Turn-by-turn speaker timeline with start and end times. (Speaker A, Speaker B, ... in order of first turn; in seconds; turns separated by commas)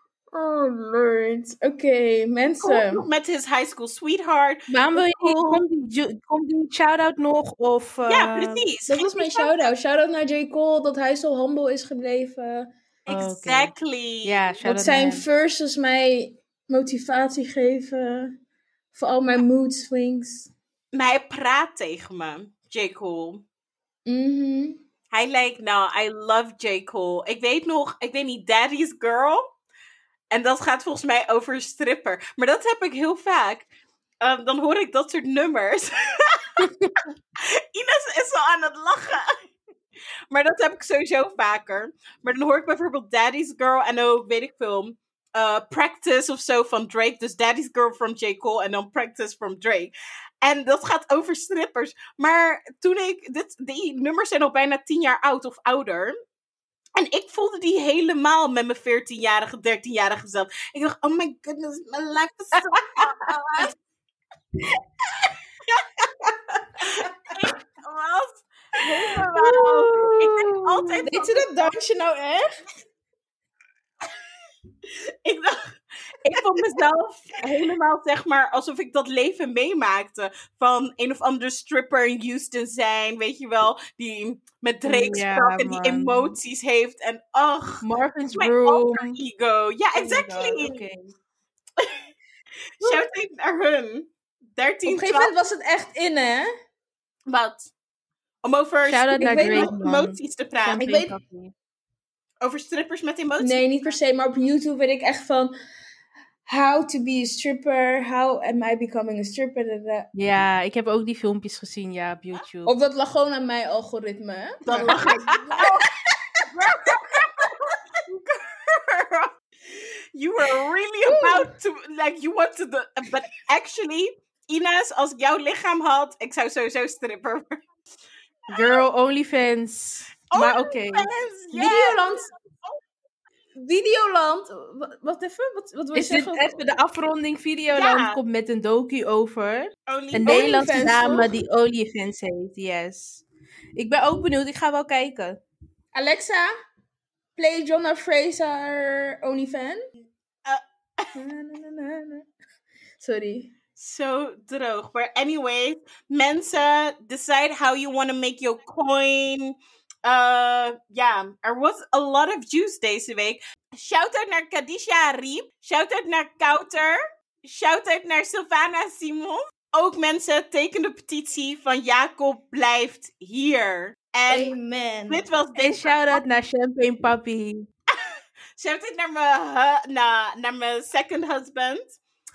Speaker A: 0.3-3.0, Speaker B: 2.6-5.6, Speaker C: 4.7-8.7, Speaker B: 8.1-9.7, Speaker A: 8.9-12.7, Speaker B: 13.1-14.4, Speaker C: 13.1-13.7, Speaker C: 14.2-15.2, Speaker A: 14.6-18.3, Speaker A: 18.9-20.5, Speaker B: 20.9-23.4, Speaker A: 24.1-24.8, Speaker B: 25.1-29.4, Speaker B: 30.3-33.7, Speaker B: 34.2-36.7, Speaker C: 36.6-36.9, Speaker B: 37.4-39.2, Speaker B: 40.3-49.9, Speaker B: 50.4-56.1, Speaker B: 57.0-63.7, Speaker B: 66.8-71.7, Speaker C: 69.3-71.0, Speaker A: 71.0-72.5, Speaker B: 75.2-90.8, Speaker C: 84.8-86.4, Speaker C: 87.8-89.2, Speaker C: 90.0-91.1, Speaker B: 91.8-92.0, Speaker B: 92.8-95.3, Speaker A: 94.8-96.5, Speaker B: 97.3-97.7, Speaker B: 98.4-100.8, Speaker C: 98.8-101.5, Speaker A: 99.2-99.8, Speaker A: 100.8-101.1, Speaker B: 102.4-104.0, Speaker A: 103.4-105.5, Speaker A: 106.5-110.1, Speaker C: 110.1-112.7, Speaker A: 112.7-116.7, Speaker B: 114.7-115.7, Speaker B: 116.5-119.3, Speaker B: 120.1-127.6, Speaker A: 121.1-121.5, Speaker C: 128.5-131.1, Speaker B: 128.5-128.8, Speaker B: 130.3-132.8, Speaker A: 131.5-132.3, Speaker A: 133.6-136.5, Speaker C: 135.9-143.2, Speaker B: 137.7-138.2, Speaker B: 139.9-141.1, Speaker A: 140.2-141.3, Speaker C: 143.8-145.4, Speaker A: 145.9-146.5, Speaker A: 147.4-149.8, Speaker B: 150.4-151.1, Speaker A: 151.1-152.2, Speaker A: 153.0-153.5, Speaker B: 153.8-174.5, Speaker A: 174.3-175.2, Speaker B: 175.1-176.2, Speaker C: 175.6-177.7, Speaker B: 178.6-182.0